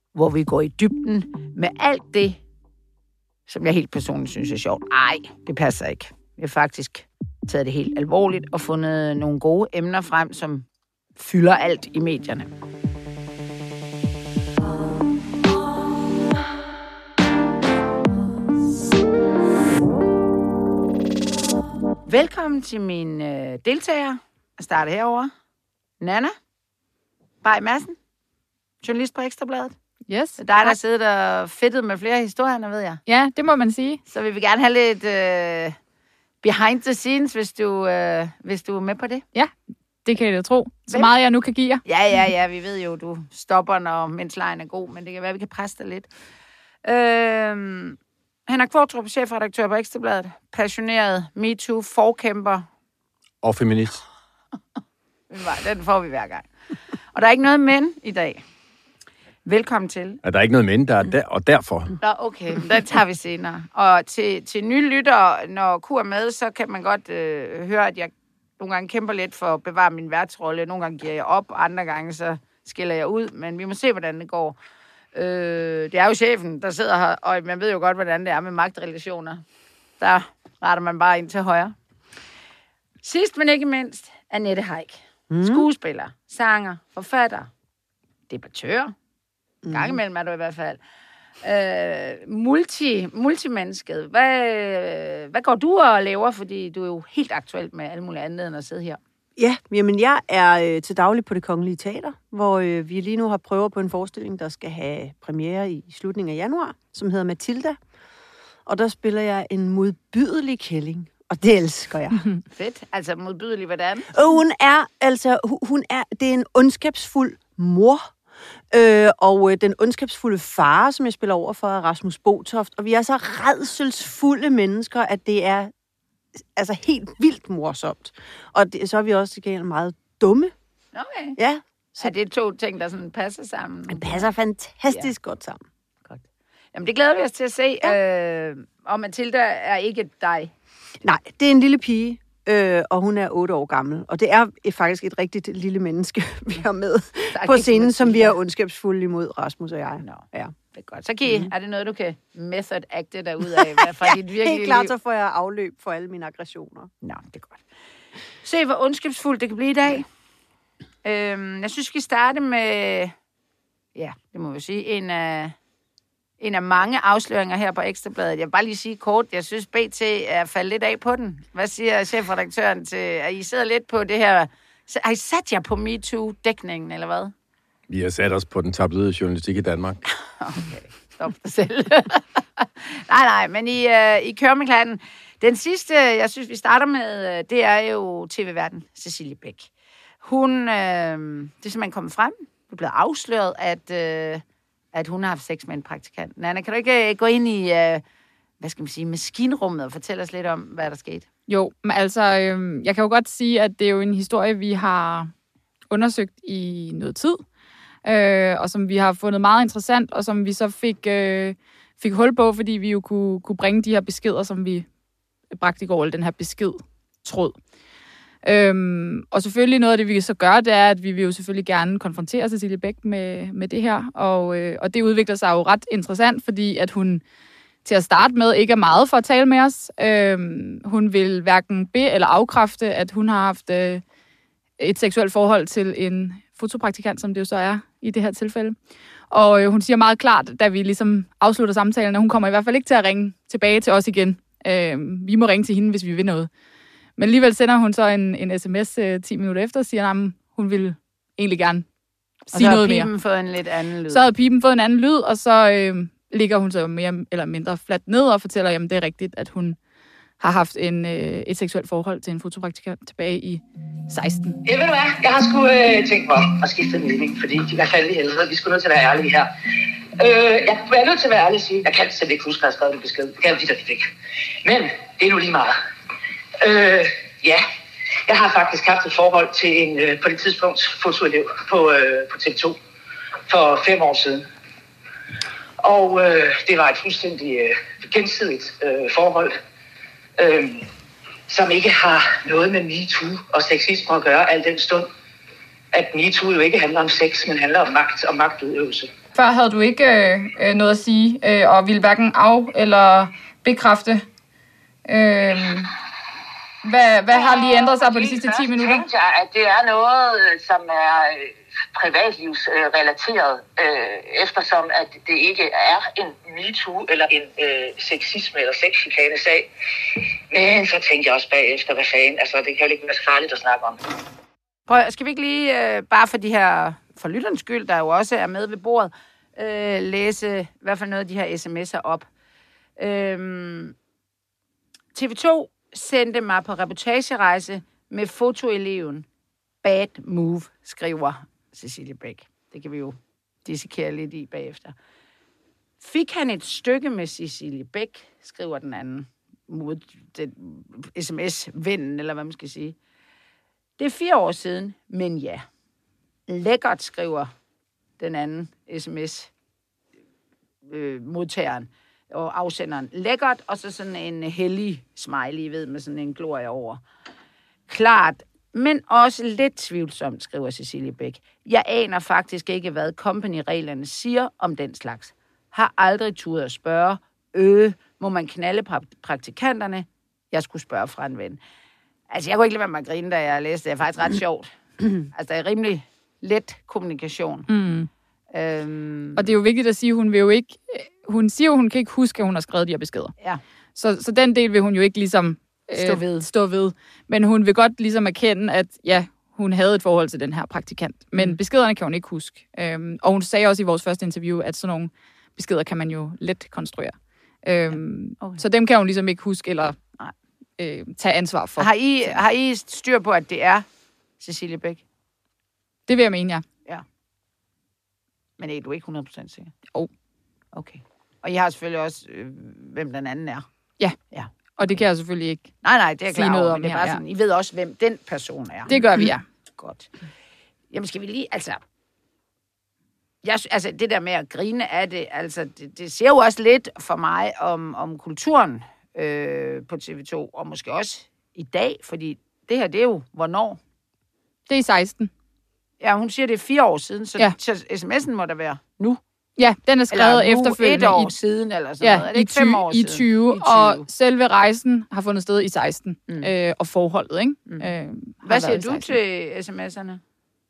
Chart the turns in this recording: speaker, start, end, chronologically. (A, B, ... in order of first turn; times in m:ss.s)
0:00.1-0:02.4 A
0:03.5-0:10.6 A
0:11.2-0:12.5 A
0:22.1-0:25.3 A
0:26.0-0:26.3 A
0:27.4-0:28.0 A
0:28.8-0:29.8 A
0:30.1-0:30.7 B
0:30.4-0:33.0 A
0:33.0-0:34.0 B
0:34.1-0:35.8 A
0:36.4-0:39.2 A
0:40.0-0:41.8 B
0:41.8-0:46.1 A
0:46.8-0:48.0 A
0:48.5-0:52.6 A
0:53.4-0:54.0 C
0:55.3-0:56.5 A
0:57.1-0:58.4 A
0:59.4-1:00.2 A
1:00.2-1:01.9 C
1:02.0-1:14.6 A
1:15.1-1:19.4 A
1:20.0-1:21.7 A
1:23.0-1:27.5 A
1:25.3-1:25.6 D
1:28.3-1:28.9 A
1:29.6-1:30.0 D
1:29.7-1:30.8 A
1:31.4-1:39.0 A
1:39.4-1:47.8 D
1:48.6-1:52.3 D
1:52.5-1:54.2 A
1:54.1-1:58.1 D
1:58.7-2:05.7 D
2:06.4-2:10.5 D
2:10.9-2:11.4 A
2:11.4-2:12.1 D
2:12.0-2:14.2 A
2:13.9-2:15.6 D
2:16.7-2:20.5 A
2:21.0-2:30.5 D
2:27.3-2:28.4 A
2:30.0-2:34.9 A
2:33.6-2:36.9 D
2:37.0-2:37.6 A
2:38.4-2:40.1 A
2:41.0-2:43.1 A
2:43.9-2:45.5 A
2:46.4-2:57.3 A
2:57.9-3:00.1 C
3:00.4-3:09.7 A
3:10.2-3:18.0 A
3:18.6-3:21.3 A
3:21.5-3:25.3 B
3:25.9-3:27.4 B
3:28.0-3:34.8 B
3:35.5-3:37.6 B
3:38.4-3:47.2 B
3:47.8-3:54.0 B
3:54.8-3:58.8 B
3:59.3-4:06.5 B
4:07.2-4:11.8 B
4:12.5-4:13.1 B
4:12.5-4:14.2 A
4:14.1-4:19.8 B
4:20.4-4:24.6 B
4:24.6-4:29.5 E
4:30.2-4:34.1 E
4:34.6-4:35.7 E
4:36.6-4:37.6 E
4:38.3-4:42.8 E
4:43.5-4:44.4 E
4:45.8-4:49.5 E
4:50.4-4:50.8 E
4:51.5-4:55.1 E
4:55.9-4:59.1 E
4:59.3-5:04.2 B
5:05.0-5:05.9 B
5:06.8-5:09.0 B
5:07.3-5:19.7 E
5:20.5-5:24.0 E
5:24.9-5:32.3 A
5:33.0-5:33.9 A
5:35.1-5:39.2 A
5:39.8-5:44.9 A
5:46.0-5:53.0 A
5:54.0-5:55.6 A
5:56.5-5:57.5 A
5:58.2-5:59.5 A
6:00.9-6:07.0 A
6:07.9-6:21.6 A
6:22.3-6:27.7 A
6:27.7-6:28.1 B
6:28.5-6:29.5 A
6:29.4-6:33.3 B
6:33.9-6:50.0 B
6:35.9-6:36.5 A
6:47.9-6:48.6 A
6:50.8-6:52.4 B
6:51.8-6:53.8 A
6:54.4-6:55.0 A
6:56.1-6:56.6 B
6:58.6-6:59.7 A
7:00.7-7:03.6 A
7:04.3-7:05.0 A
7:04.8-7:05.7 B
7:05.8-7:09.0 A
7:06.3-7:07.2 B
7:08.9-7:09.4 B
7:09.8-7:10.1 A
7:10.9-7:11.8 A
7:13.4-7:23.8 A
7:24.7-7:25.3 B
7:26.0-7:29.2 A
7:29.6-7:31.3 B
7:30.1-7:34.1 A
7:32.0-7:39.2 B
7:38.4-7:40.2 A